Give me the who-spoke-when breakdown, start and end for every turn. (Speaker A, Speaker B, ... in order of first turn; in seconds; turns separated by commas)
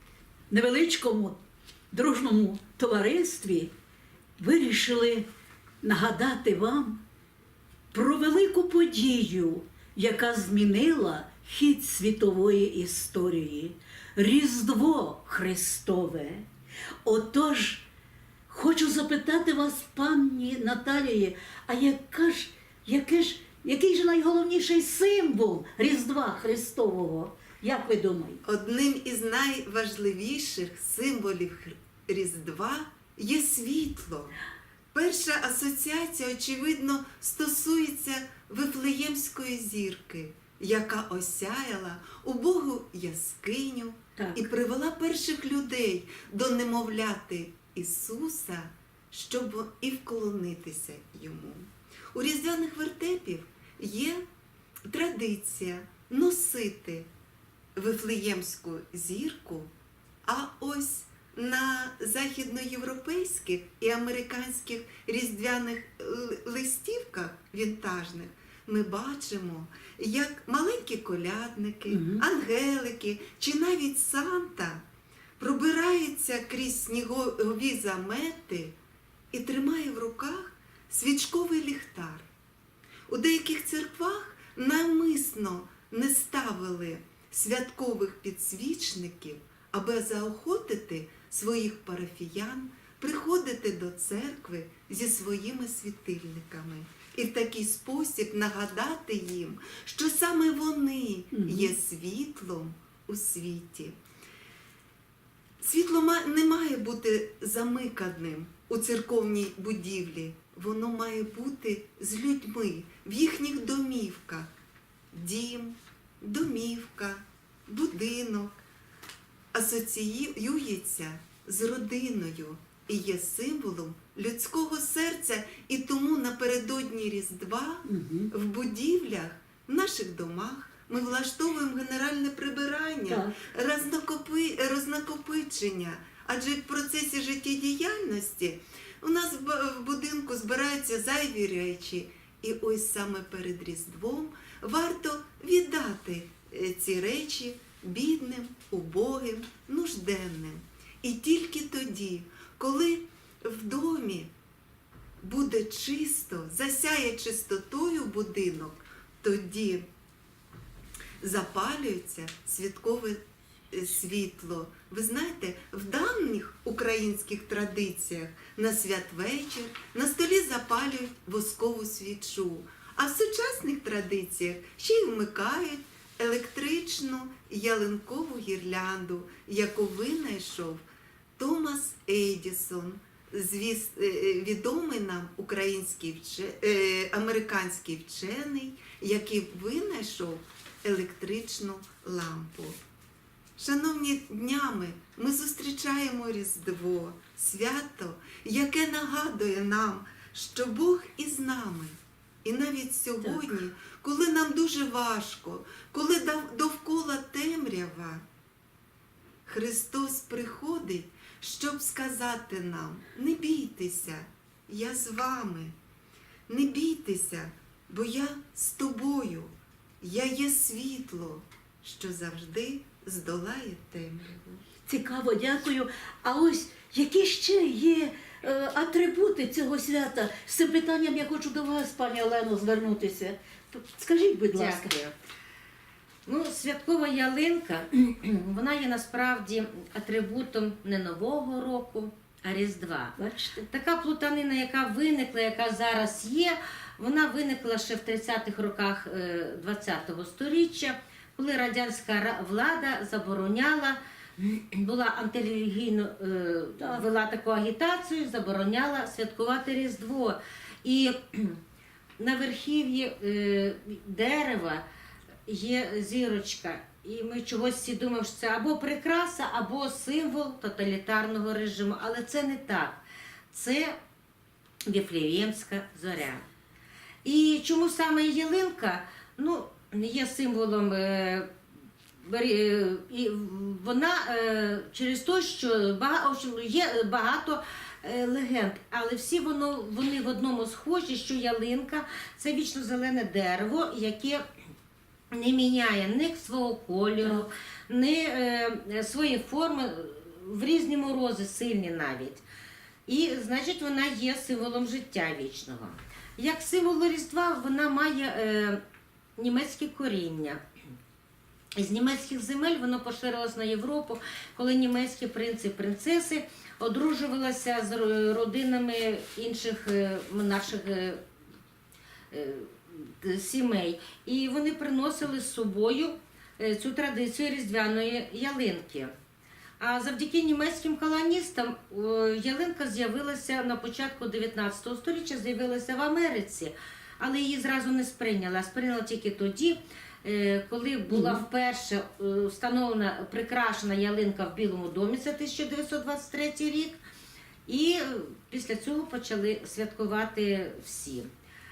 Speaker A: 0.5-1.4, Speaker A: 1.9-3.7, Speaker A: 4.4-5.2, Speaker A: 5.8-7.0, Speaker A: 7.9-16.5, Speaker A: 17.1-17.9, Speaker A: 18.5-28.4, Speaker B: 28.4-34.4, Speaker B: 34.9-54.2, Speaker A: 44.2-44.4, Speaker B: 54.9-57.1, Speaker B: 57.8-59.7, Speaker B: 60.2-74.8, Speaker A: 71.9-72.2, Speaker B: 75.4-78.7, Speaker B: 79.3-82.3, Speaker B: 83.1-104.0, Speaker A: 101.3-101.7, Speaker B: 105.6-114.5, Speaker B: 115.1-118.5, Speaker B: 119.5-154.3, Speaker A: 127.9-128.3, Speaker A: 133.1-133.4, Speaker B: 155.2-159.8, Speaker B: 161.2-163.2, Speaker B: 163.7-180.8, Speaker B: 181.4-192.8, Speaker B: 193.6-208.2, Speaker A: 203.2-203.6, Speaker B: 209.5-215.7, Speaker B: 216.5-224.6, Speaker A: 224.9-234.9, Speaker C: 234.5-235.1, Speaker C: 236.3-243.2, Speaker A: 243.2-243.7, Speaker C: 243.7-261.6, Speaker A: 256.8-257.1, Speaker C: 262.2-264.8, Speaker C: 265.5-273.9, Speaker C: 274.9-276.4, Speaker C: 277.2-281.5, Speaker C: 282.2-294.4, Speaker C: 295.3-302.4, Speaker C: 303.1-308.8, Speaker C: 309.4-310.6, Speaker C: 311.8-321.2, Speaker C: 322.3-329.1, Speaker C: 329.8-347.0, Speaker A: 341.1-341.4, Speaker C: 347.7-351.3